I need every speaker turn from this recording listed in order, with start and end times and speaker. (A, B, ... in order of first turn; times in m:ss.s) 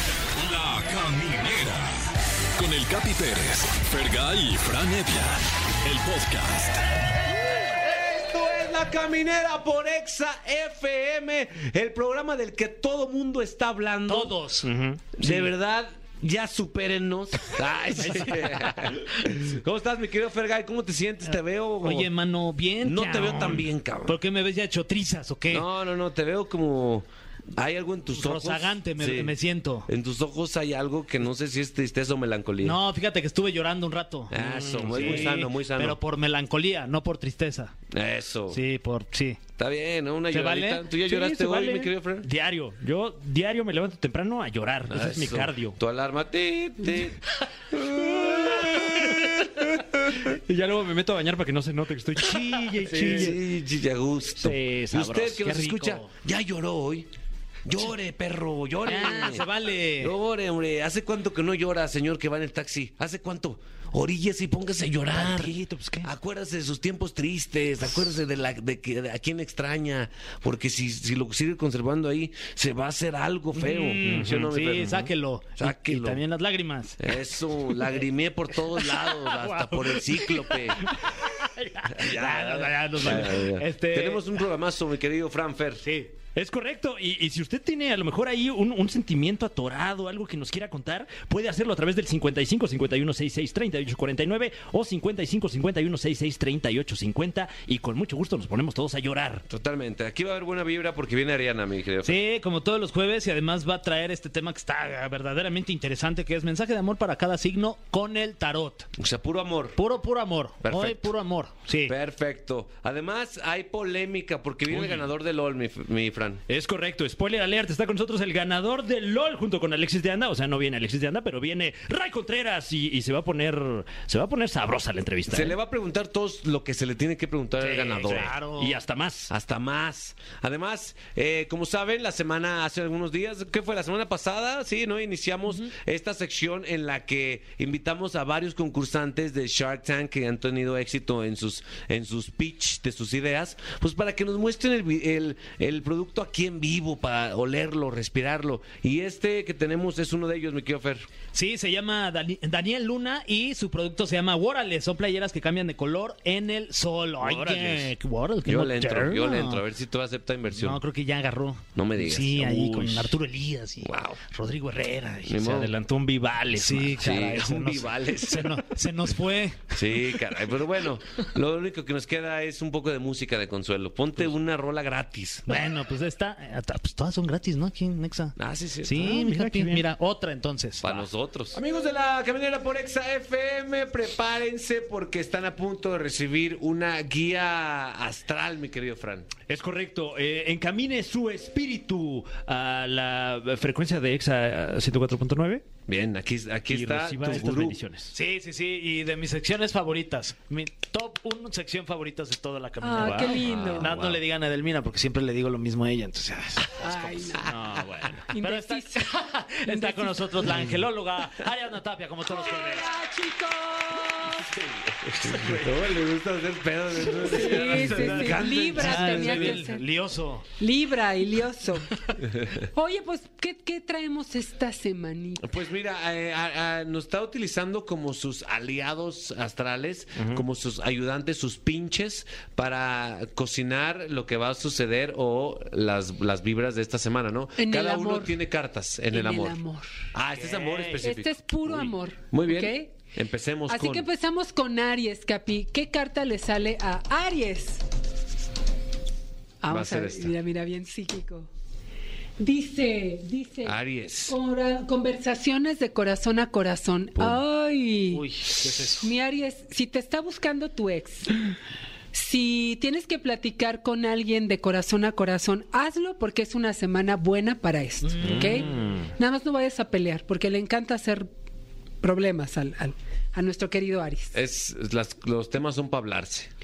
0:00.4-0:06.8 A
0:07.4-0:14.4 B
0:14.1-0:15.5 C
0:14.6-0:15.0 D
0:15.2-0:22.1 B
0:18.0-0:18.5 C
0:21.8-0:25.7 C
0:22.8-0:24.2 B
0:25.5-0:32.8 B
0:28.1-0:29.9 C
0:32.6-0:37.8 C
0:34.3-0:36.0 B
0:37.9-0:38.6 B
0:38.5-0:39.4 C
0:39.6-0:42.3 B
0:40.3-0:41.9 C
0:42.2-0:45.8 D
0:44.9-0:47.2 B
0:47.7-0:49.7 B
0:47.8-0:49.0 D
0:50.1-0:53.4 D
0:52.8-0:57.1 B
0:54.4-0:55.8 D
0:55.7-0:56.1 C
0:57.7-1:05.5 B
0:58.8-1:00.1 C
1:05.2-1:06.1 C
1:06.0-1:15.0 B
1:13.5-1:18.0 C
1:14.0-1:15.1 D
1:15.6-1:16.2 B
1:17.0-1:20.9 B
1:18.8-1:24.2 C
1:21.9-1:25.8 B
1:25.8-1:26.1 C
1:26.4-1:39.4 D
1:39.5-1:42.2 B
1:42.0-1:48.9 C
1:49.0-1:49.8 B
1:49.8-1:51.9 C
1:50.6-1:51.1 B
1:51.8-1:56.4 B
1:54.7-1:55.1 D
1:56.5-2:05.6 D
2:05.3-2:08.4 B
2:07.6-2:08.8 C
2:08.1-2:09.3 D
2:09.3-2:31.1 B
2:31.3-2:39.6 C
2:37.2-2:37.9 D
2:38.4-2:40.8 B
2:40.5-2:45.6 C
2:41.8-2:42.8 B
2:42.6-2:43.1 D
2:43.8-2:44.2 B
2:45.3-2:45.7 B
2:45.4-2:47.1 D
2:46.5-2:50.2 C
2:47.0-2:48.7 B
2:49.7-2:55.5 B
2:55.5-3:01.1 C
2:58.4-2:59.1 B
2:59.0-2:59.9 D
3:00.8-3:09.3 B
3:09.5-3:15.7 D
3:15.9-3:17.8 B
3:16.7-3:18.2 D
3:18.1-3:27.5 C
3:22.8-3:23.9 E
3:23.0-3:24.2 D
3:26.8-3:27.5 E
3:27.4-3:28.3 D
3:28.3-3:29.1 E
3:28.3-3:33.0 C
3:29.6-3:30.4 E
3:32.2-3:34.5 E
3:34.5-3:39.7 B
3:35.1-3:35.8 C
3:37.1-3:40.4 C
3:37.2-3:39.9 E
3:40.6-3:45.6 E
3:45.4-3:59.6 B
3:50.2-3:50.4 D
3:57.6-3:58.4 E
3:59.1-3:59.9 E
4:00.1-4:04.1 B
4:00.3-4:01.0 C
4:01.0-4:03.0 E
4:03.7-4:07.8 E
4:09.6-4:11.5 E
4:09.7-4:10.3 B
4:12.4-4:13.8 E
4:13.7-4:14.4 B
4:14.3-4:18.2 E
4:18.1-4:19.1 C
4:19.0-4:21.4 E
4:22.1-4:31.3 E
4:28.1-4:28.7 C
4:28.2-4:29.1 D
4:32.0-4:34.4 E
4:34.3-4:36.5 B